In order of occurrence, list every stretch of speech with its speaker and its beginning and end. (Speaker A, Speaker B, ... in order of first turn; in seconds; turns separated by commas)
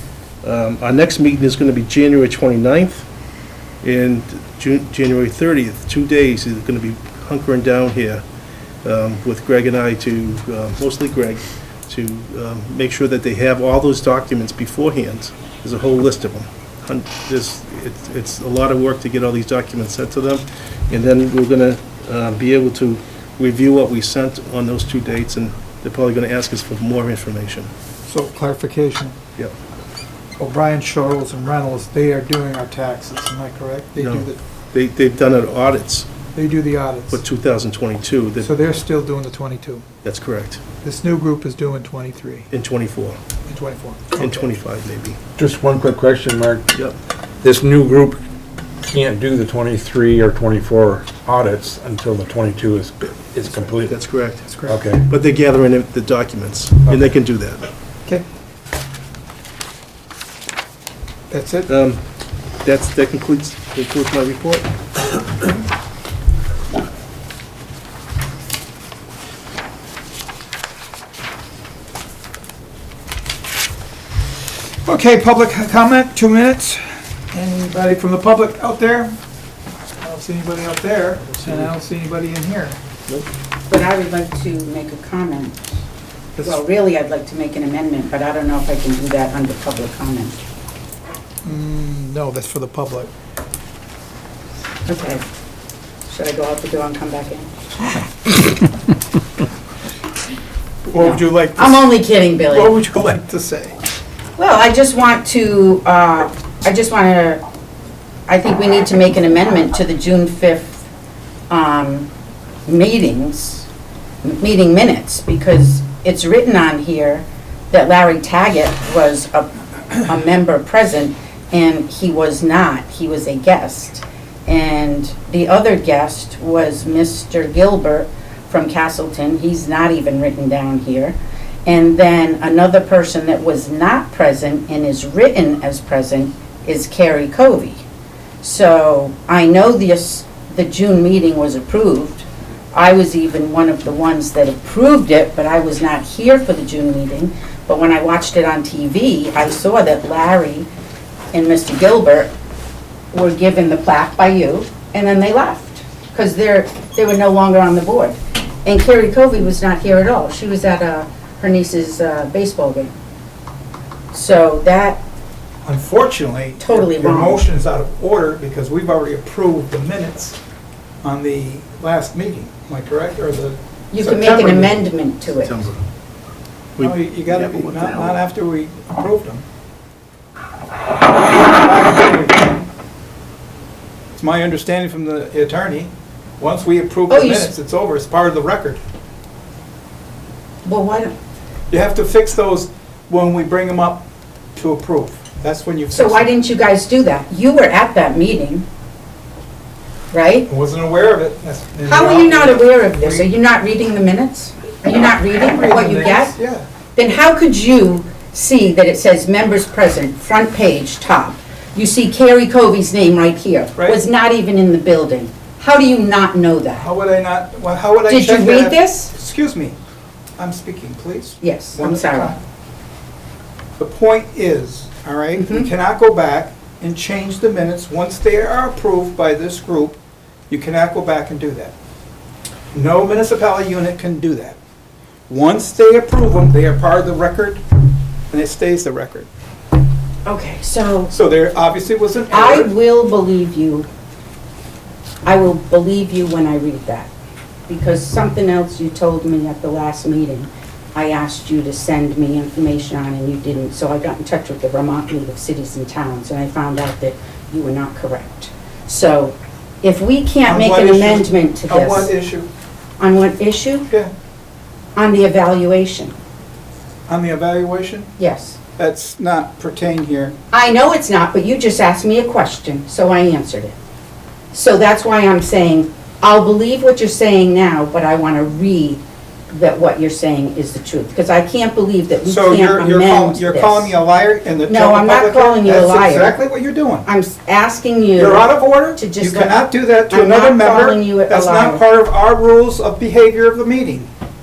Speaker A: 0.4-3.0, Speaker A: 3.8-8.2, Speaker A: 8.8-27.7, Speaker B: 28.1-29.1, Speaker B: 30.4-34.4, Speaker A: 34.0-36.1, Speaker B: 36.3-37.2, Speaker A: 37.1-38.5, Speaker B: 38.4-39.8, Speaker A: 40.0-40.6, Speaker B: 40.8-42.5, Speaker A: 42.5-43.2, Speaker B: 43.5-44.5, Speaker A: 44.1-45.2, Speaker C: 45.4-46.7, Speaker C: 47.4-48.2, Speaker C: 48.9-54.0, Speaker A: 53.8-57.7, Speaker B: 54.5-54.8, Speaker C: 54.7-55.0, Speaker B: 61.3-61.7, Speaker A: 61.7-62.0, Speaker A: 62.6-64.7, Speaker B: 74.8-79.2, Speaker B: 80.0-82.8, Speaker A: 81.2-81.7, Speaker D: 83.7-85.7, Speaker B: 86.3-86.6, Speaker D: 86.4-90.4, Speaker B: 91.4-93.1, Speaker D: 94.9-95.2, Speaker D: 96.1-97.5, Speaker B: 100.9-101.8, Speaker D: 100.9-102.7, Speaker B: 102.5-103.8, Speaker D: 104.4-107.4, Speaker D: 108.3-110.8, Speaker D: 111.5-112.1, Speaker D: 112.7-113.7, Speaker D: 114.2-137.8, Speaker D: 138.4-150.7, Speaker D: 151.3-152.3, Speaker D: 153.1-162.9, Speaker D: 164.1-165.0, Speaker B: 165.6-170.4, Speaker D: 166.6-167.4, Speaker B: 171.0-174.8, Speaker D: 173.9-175.7, Speaker A: 175.3-175.8, Speaker A: 176.8-178.2, Speaker B: 176.8-179.4, Speaker B: 181.3-182.7, Speaker B: 184.1-188.8, Speaker D: 187.1-187.5, Speaker D: 190.6-191.1, Speaker B: 191.7-194.0, Speaker B: 194.6-196.3, Speaker D: 195.9-198.7, Speaker D: 200.1-200.5, Speaker B: 200.5-203.3, Speaker D: 201.8-206.3, Speaker B: 205.4-206.7, Speaker D: 206.9-216.9, Speaker B: 213.8-214.0, Speaker B: 216.7-219.8, Speaker D: 218.1-219.1, Speaker B: 220.4-222.4, Speaker D: 221.4-222.3, Speaker B: 223.8-230.0, Speaker D: 225.3-225.7, Speaker B: 230.5-231.7, Speaker B: 232.7-234.6, Speaker B: 235.3-237.6, Speaker B: 238.3-239.3, Speaker D: 240.2-241.1, Speaker B: 241.1-242.7, Speaker D: 242.3-243.9, Speaker D: 245.2-247.1, Speaker D: 247.7-262.1, Speaker B: 260.4-262.5, Speaker D: 263.0-263.9, Speaker D: 264.9-266.1, Speaker B: 267.1-268.1, Speaker D: 268.2-268.6, Speaker B: 268.8-270.4, Speaker D: 270.5-273.7, Speaker D: 274.5-283.9, Speaker B: 282.2-287.1, Speaker D: 284.7-286.4, Speaker D: 287.0-291.8, Speaker B: 288.2-294.1